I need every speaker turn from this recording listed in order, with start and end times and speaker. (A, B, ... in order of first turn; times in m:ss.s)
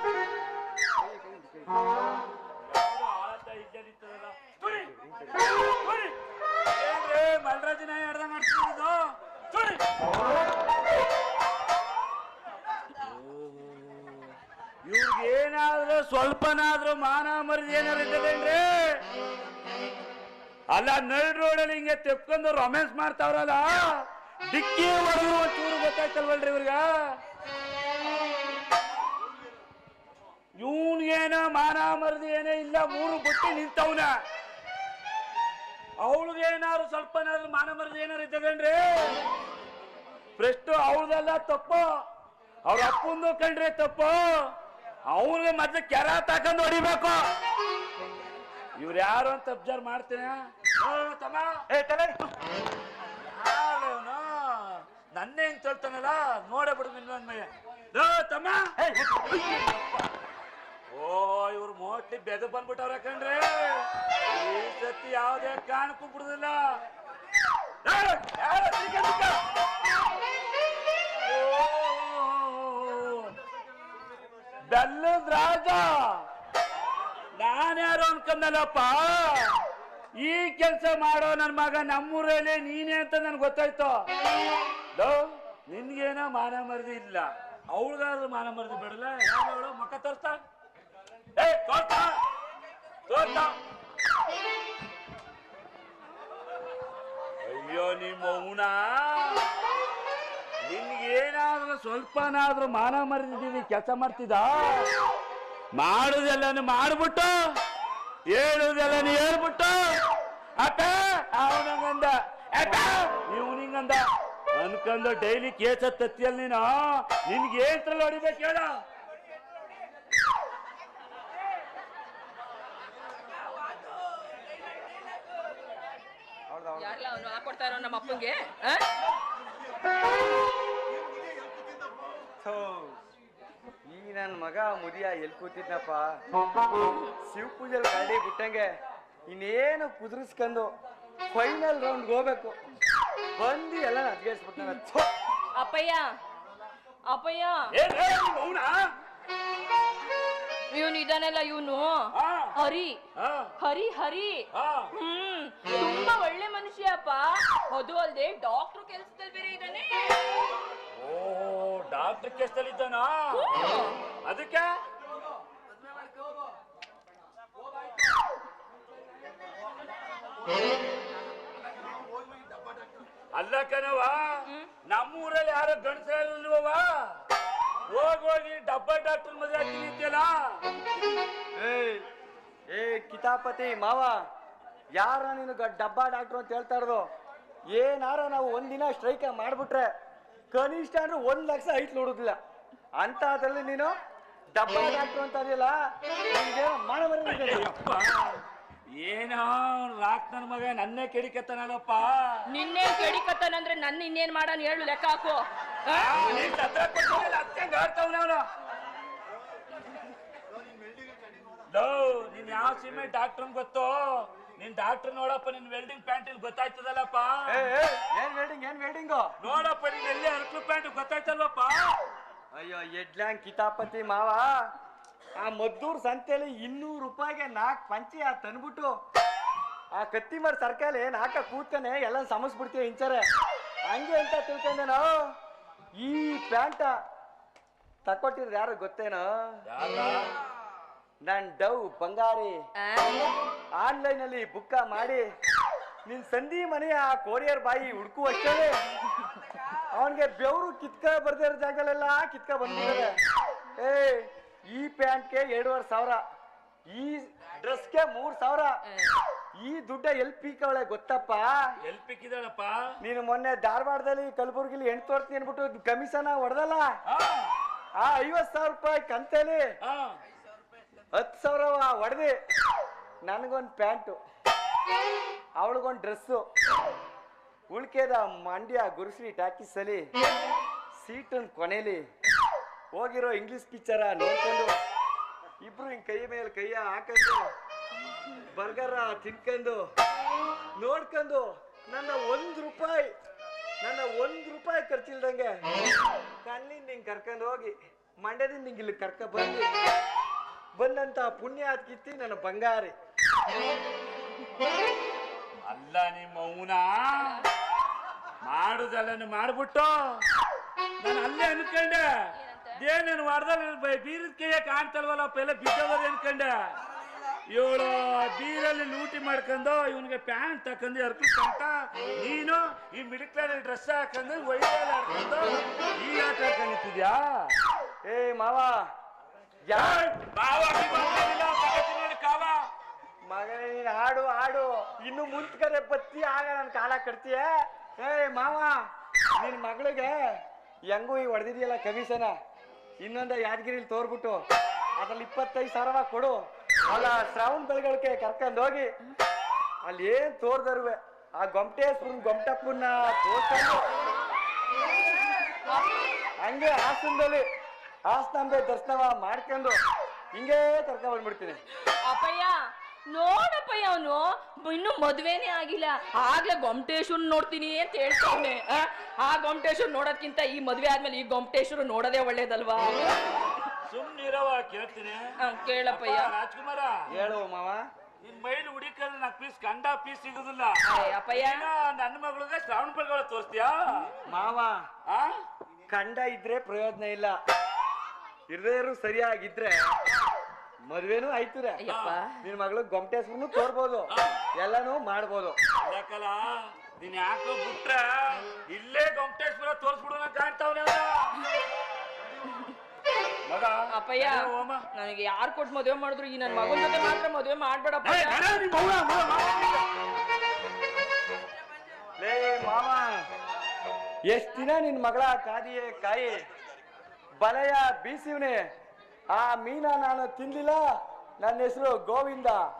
0:01.0-0:01.8 A
0:02.6-0:04.9 B
0:04.8-0:05.5 A
0:05.4-0:06.2 B
0:06.7-0:09.8 B
0:13.0-0:19.0 B
0:20.7-0:27.2 B
0:30.6-0:34.1 B
0:36.0-0:39.2 B
0:40.4-0:41.9 B
0:42.6-0:44.5 B
0:45.1-0:47.2 B
0:48.8-0:51.5 B
0:51.7-0:52.2 A
0:53.2-1:00.1 B
1:00.9-1:06.6 B
1:07.8-1:09.4 B
1:11.2-1:13.3 B
1:14.7-1:16.2 B
1:17.4-1:19.6 B
1:20.2-1:24.0 B
1:24.9-1:30.4 B
1:31.4-1:32.2 B
1:33.1-1:33.5 B
1:37.4-1:39.5 B
1:40.6-1:44.9 B
1:45.7-1:47.3 B
1:48.3-1:50.0 B
1:50.6-1:58.7 B
2:06.5-2:07.0 A
2:06.8-2:08.9 C
2:12.4-2:13.0 A
2:13.9-2:16.1 A
2:16.7-2:17.1 C
2:17.2-2:18.7 A
2:19.3-2:20.7 A
2:21.3-2:22.6 A
2:23.4-2:25.1 A
2:25.5-2:26.1 C
2:27.1-2:27.7 C
2:27.7-2:28.9 B
2:30.7-2:33.0 C
2:32.1-2:32.5 B
2:33.2-2:33.5 B
2:33.6-2:40.4 C
2:34.5-2:34.9 B
2:40.9-2:43.6 B
2:43.3-2:44.0 C
2:44.2-2:44.7 B
2:53.3-2:57.1 B
2:57.9-3:00.6 B
3:01.6-3:02.0 A
3:02.7-3:04.2 A
3:04.9-3:07.1 A
3:07.7-3:09.9 A
3:10.5-3:12.4 A
3:13.0-3:13.9 A
3:14.5-3:17.7 A
3:17.2-3:18.4 B
3:19.0-3:22.5 B
3:22.5-3:26.2 C
3:25.9-3:28.4 B
3:31.7-3:37.7 B
3:37.4-3:39.3 A
3:39.4-3:42.0 B
3:42.5-3:44.5 A
3:45.4-3:48.9 A
3:49.9-3:53.3 A
3:53.9-3:55.3 A
3:56.0-3:56.9 A
3:58.0-3:59.6 A
3:59.7-4:00.3 B
4:01.2-4:02.6 A
4:02.8-4:03.3 C
4:03.8-4:05.2 A
4:06.0-4:08.8 A
4:09.9-4:13.2 A
4:13.8-4:16.2 A
4:16.9-4:18.8 A
4:19.6-4:21.7 A
4:21.8-4:22.9 B
4:23.0-4:26.9 A
4:27.1-4:27.6 B
4:28.0-4:29.7 A
4:29.8-4:30.1 B
4:31.1-4:32.4 A
4:33.2-4:34.2 A
4:35.6-4:36.4 A
4:37.7-4:40.1 A
4:41.0-4:42.0 A
4:42.9-4:44.7 A
4:45.6-4:47.5 A
4:48.4-4:49.8 A
4:50.8-4:53.1 A
4:53.8-4:55.6 A
4:56.4-4:59.7 A
5:00.8-5:02.9 A
5:05.6-5:07.4 B
5:07.1-5:07.5 C
5:08.4-5:10.2 B
5:11.0-5:16.7 B
5:12.3-5:12.8 C
5:17.5-5:27.5 B
5:28.0-5:28.8 A
5:29.6-5:30.1 A
5:29.7-5:32.6 B
5:33.2-5:38.8 A
5:39.4-5:42.3 A
5:43.0-5:44.4 A
5:45.0-5:48.9 A
5:49.8-5:53.9 A
5:55.7-5:56.1 C
5:56.4-5:57.4 A
5:58.0-5:59.8 A
6:00.3-6:01.6 A
6:02.0-6:02.5 C
6:03.1-6:13.7 C
6:13.8-6:15.3 B
6:15.4-6:16.3 C
6:15.9-6:17.1 B
6:17.1-6:17.8 A
6:18.2-6:24.2 B
6:20.8-6:21.7 C
6:24.2-6:24.8 A
6:25.1-6:25.4 B
6:25.9-6:27.4 A
6:28.5-6:29.8 A
6:30.9-6:31.8 A
6:31.8-6:32.4 C
6:31.9-6:32.2 B
6:32.4-6:35.6 A
6:34.1-6:34.4 B
6:35.8-6:41.5 B
6:43.4-6:44.8 B
6:43.9-6:48.4 C
6:48.0-6:49.9 B
6:52.2-6:53.2 A
6:54.3-6:56.4 A
6:57.4-6:58.6 A
6:59.3-7:00.8 A
7:01.4-7:02.6 A